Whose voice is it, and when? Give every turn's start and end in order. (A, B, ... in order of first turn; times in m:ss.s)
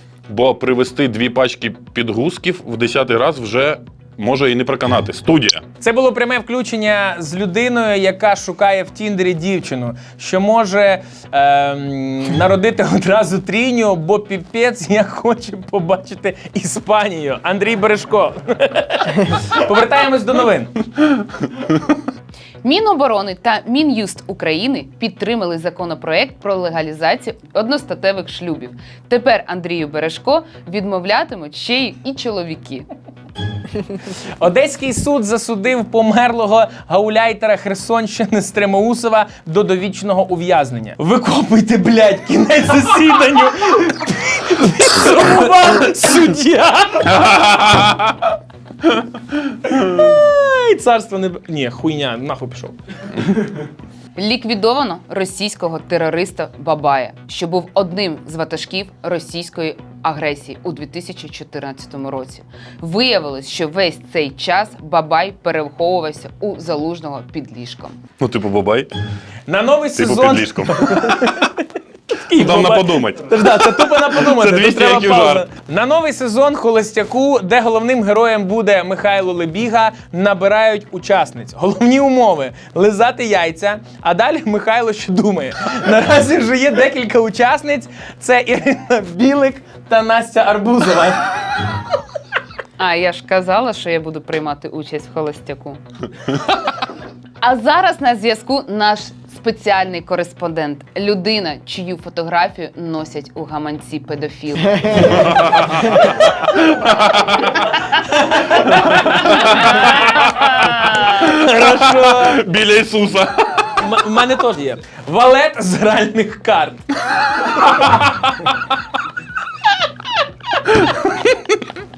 0:00.3-0:05.6 A
0:05.8-0:20.8 B
0:22.6-0:32.9 C
0:34.4-0:47.2 B
0:47.3-0:48.1 A
0:49.6-0:52.8 B
0:54.2-1:08.0 C
1:08.2-1:08.9 A
1:09.5-1:31.4 B
1:10.0-1:11.5 A
1:12.3-1:15.4 A
1:32.8-1:35.8 C
1:37.4-1:44.9 C
1:44.9-1:47.8 A
1:48.3-1:52.4 B
1:48.6-1:53.8 A
1:53.8-1:56.9 B
1:57.5-1:58.4 B
2:00.7-2:01.6 B